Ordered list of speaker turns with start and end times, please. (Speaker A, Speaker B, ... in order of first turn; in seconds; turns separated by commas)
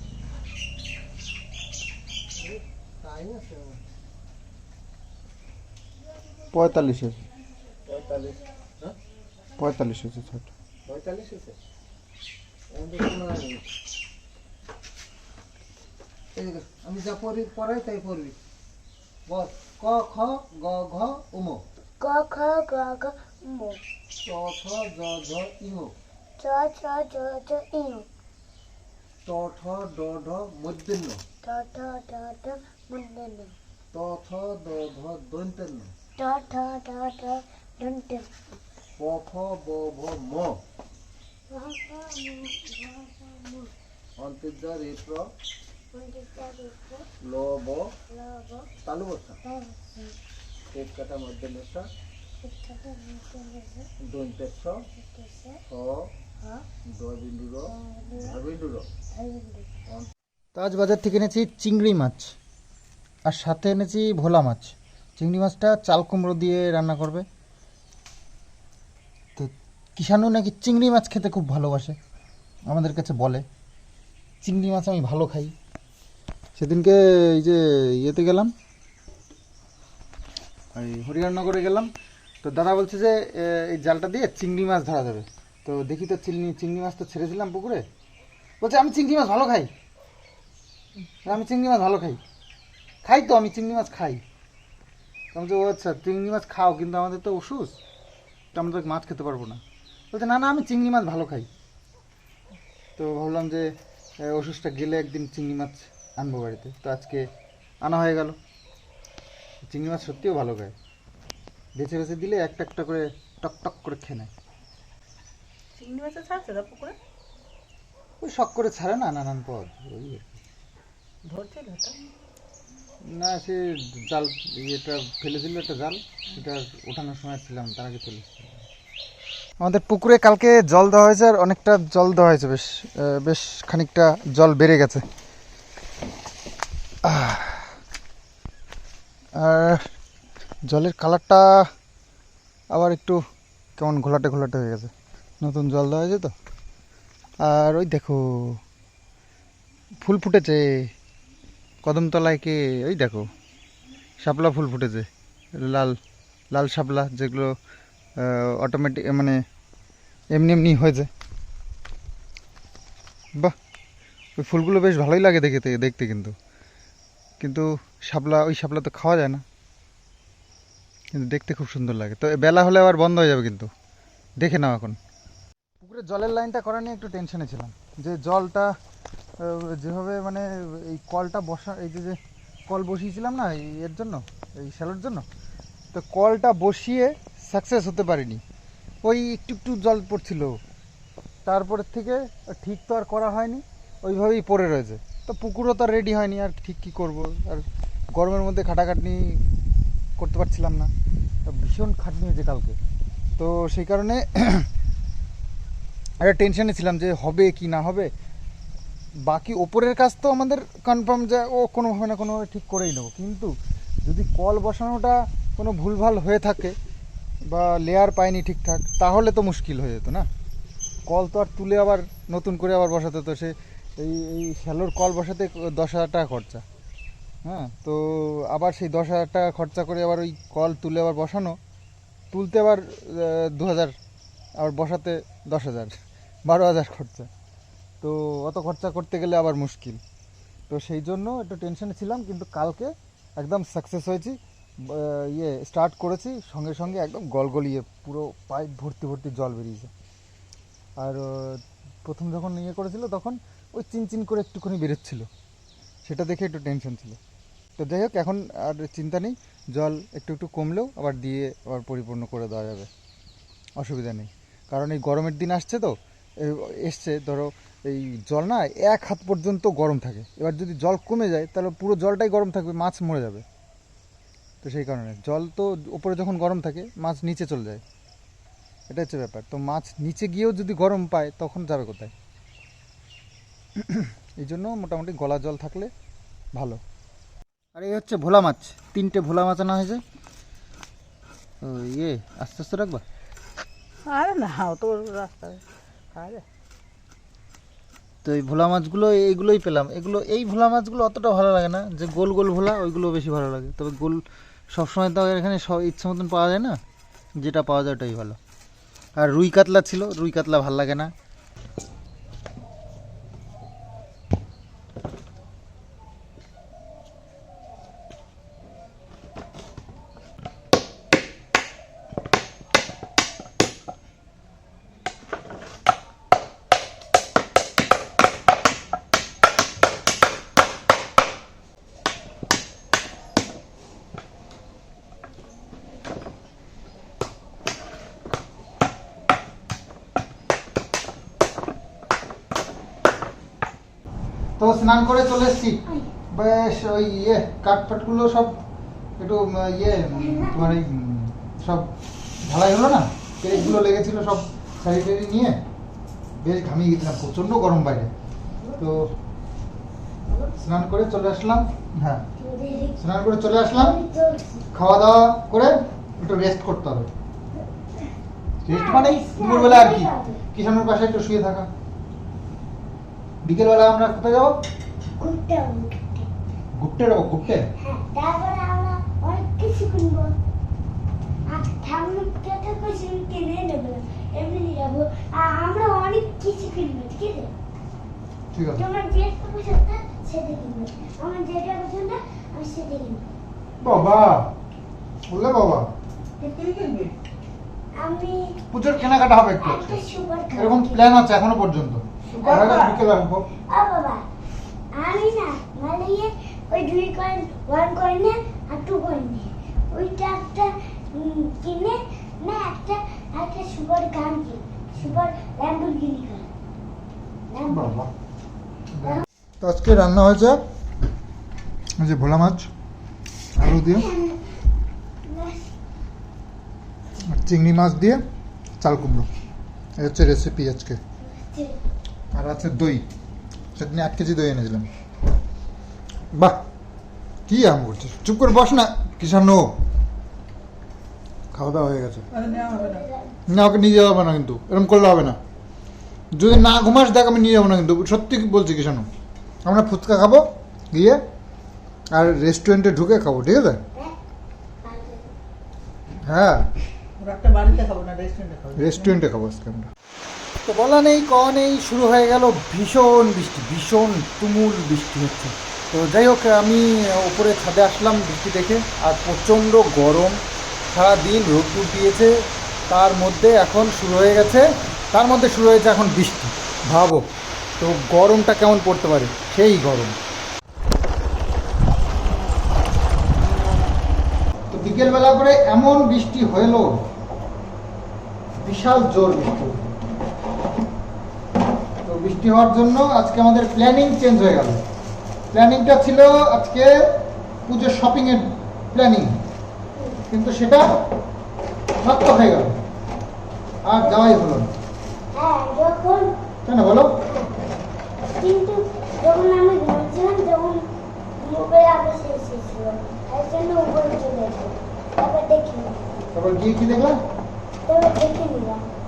Speaker A: 2.4-3.8, Speaker B: 6.5-7.2, Speaker A: 7.9-8.9, Speaker B: 9.6-10.5, Speaker A: 10.9-11.6, Speaker A: 12.7-13.7, Speaker A: 16.4-18.4, Speaker A: 19.3-21.6, Speaker C: 22.0-23.8, Speaker A: 24.2-25.9, Speaker C: 26.4-28.1, Speaker A: 29.3-31.2, Speaker C: 31.4-33.6, Speaker A: 33.9-35.9, Speaker C: 36.2-38.4, Speaker A: 39.0-40.6, Speaker C: 41.5-43.7, Speaker A: 44.2-45.3, Speaker C: 45.9-47.1, Speaker A: 47.2-47.9, Speaker C: 48.1-48.7, Speaker A: 48.8-49.4, Speaker C: 49.4-50.1, Speaker A: 50.7-51.9, Speaker C: 52.4-53.9, Speaker A: 54.0-54.8, Speaker C: 55.0-55.6, Speaker A: 55.7-56.1, Speaker A: 57.0-58.9, Speaker C: 57.7-58.4, Speaker C: 59.1-59.7, Speaker B: 60.5-62.4, Speaker B: 63.2-67.2, Speaker B: 69.4-72.0, Speaker B: 72.7-73.5, Speaker B: 74.4-75.5, Speaker B: 76.6-78.5, Speaker B: 80.8-81.9, Speaker B: 82.4-87.8, Speaker B: 88.6-89.7, Speaker B: 91.2-92.2, Speaker B: 93.0-94.2, Speaker B: 95.3-97.8, Speaker B: 98.5-99.6, Speaker B: 100.1-101.5, Speaker B: 103.0-103.7, Speaker B: 104.2-107.3, Speaker B: 107.8-108.4, Speaker B: 109.7-110.7, Speaker B: 111.8-114.3, Speaker D: 115.8-117.0, Speaker B: 118.2-120.4, Speaker D: 121.2-122.0, Speaker B: 123.1-128.6, Speaker B: 129.6-135.1, Speaker B: 137.0-137.7, Speaker B: 139.4-139.9, Speaker B: 140.7-141.7, Speaker B: 142.7-143.2, Speaker B: 143.8-146.3, Speaker B: 147.4-148.6, Speaker B: 150.0-150.9, Speaker B: 151.8-153.3, Speaker B: 154.2-156.0, Speaker B: 156.5-157.5, Speaker B: 158.2-159.4, Speaker B: 160.3-161.1, Speaker B: 164.4-166.3, Speaker B: 167.4-169.4, Speaker B: 171.1-173.7, Speaker B: 174.4-175.0, Speaker B: 175.8-178.7, Speaker B: 179.4-185.2, Speaker B: 185.9-188.4, Speaker B: 189.0-190.6, Speaker B: 191.5-199.4, Speaker B: 200.2-200.9, Speaker B: 201.5-202.8, Speaker B: 203.4-204.7, Speaker B: 206.2-208.1, Speaker B: 209.2-216.8, Speaker B: 217.5-220.3, Speaker B: 221.1-226.6, Speaker B: 227.4-231.6, Speaker B: 232.3-233.9, Speaker B: 234.6-235.9, Speaker B: 236.5-237.3, Speaker B: 238.0-240.0, Speaker B: 240.7-249.9, Speaker B: 251.0-255.3, Speaker B: 256.1-257.2, Speaker B: 257.8-262.9, Speaker B: 263.8-273.4, Speaker B: 274.6-277.8, Speaker B: 278.9-282.1, Speaker B: 283.8-285.9, Speaker B: 286.5-286.8, Speaker B: 287.8-290.0, Speaker B: 291.6-293.0, Speaker D: 294.1-296.4, Speaker B: 298.2-306.8, Speaker B: 307.4-308.4, Speaker B: 309.2-311.1, Speaker B: 344.6-348.6, Speaker B: 349.2-355.6, Speaker C: 350.1-350.7, Speaker C: 353.5-353.8, Speaker B: 356.4-358.1, Speaker B: 358.8-359.1, Speaker B: 360.6-362.2, Speaker C: 362.4-364.6, Speaker B: 363.0-364.0, Speaker B: 364.7-367.1, Speaker B: 368.6-371.7, Speaker C: 368.7-370.4, Speaker B: 373.4-374.6, Speaker C: 375.2-376.3, Speaker B: 376.8-377.7, Speaker C: 377.8-380.3, Speaker C: 381.5-387.5, Speaker B: 388.5-388.8, Speaker C: 388.8-393.3, Speaker B: 393.8-394.5, Speaker B: 395.3-395.9, Speaker D: 396.4-397.1, Speaker C: 398.0-398.6, Speaker B: 398.7-400.0, Speaker C: 399.6-401.1, Speaker B: 400.6-403.5, Speaker D: 402.3-403.0, Speaker C: 403.7-404.3, Speaker C: 404.9-416.5, Speaker C: 417.5-418.0, Speaker B: 417.7-418.1, Speaker B: 418.9-420.6, Speaker B: 422.0-422.7, Speaker B: 423.6-424.1, Speaker C: 423.8-424.5, Speaker C: 425.2-425.8, Speaker B: 427.2-428.2, Speaker B: 428.8-429.3, Speaker B: 430.0-431.0, Speaker C: 431.2-431.8, Speaker B: 432.3-433.1, Speaker B: 433.8-434.9, Speaker B: 436.3-436.6, Speaker B: 437.5-439.7, Speaker B: 441.5-442.3, Speaker D: 442.3-443.1, Speaker C: 442.4-443.4, Speaker B: 443.5-445.4, Speaker B: 446.3-449.1, Speaker B: 449.6-451.2, Speaker B: 452.1-453.8, Speaker C: 454.8-455.3, Speaker B: 456.2-456.7, Speaker D: 457.2-459.1, Speaker B: 458.8-459.9, Speaker B: 460.6-470.4, Speaker B: 470.9-472.4, Speaker B: 472.9-477.2, Speaker B: 477.8-480.1, Speaker B: 484.7-486.9, Speaker B: 488.6-490.0, Speaker B: 492.0-494.8, Speaker B: 495.5-497.1, Speaker B: 497.7-499.4, Speaker C: 499.9-500.2, Speaker B: 500.3-500.9, Speaker B: 502.0-502.8, Speaker B: 503.9-504.7, Speaker C: 505.3-506.3, Speaker B: 506.7-507.2, Speaker C: 507.2-507.5, Speaker C: 508.3-516.3, Speaker B: 516.3-517.2, Speaker C: 517.9-518.9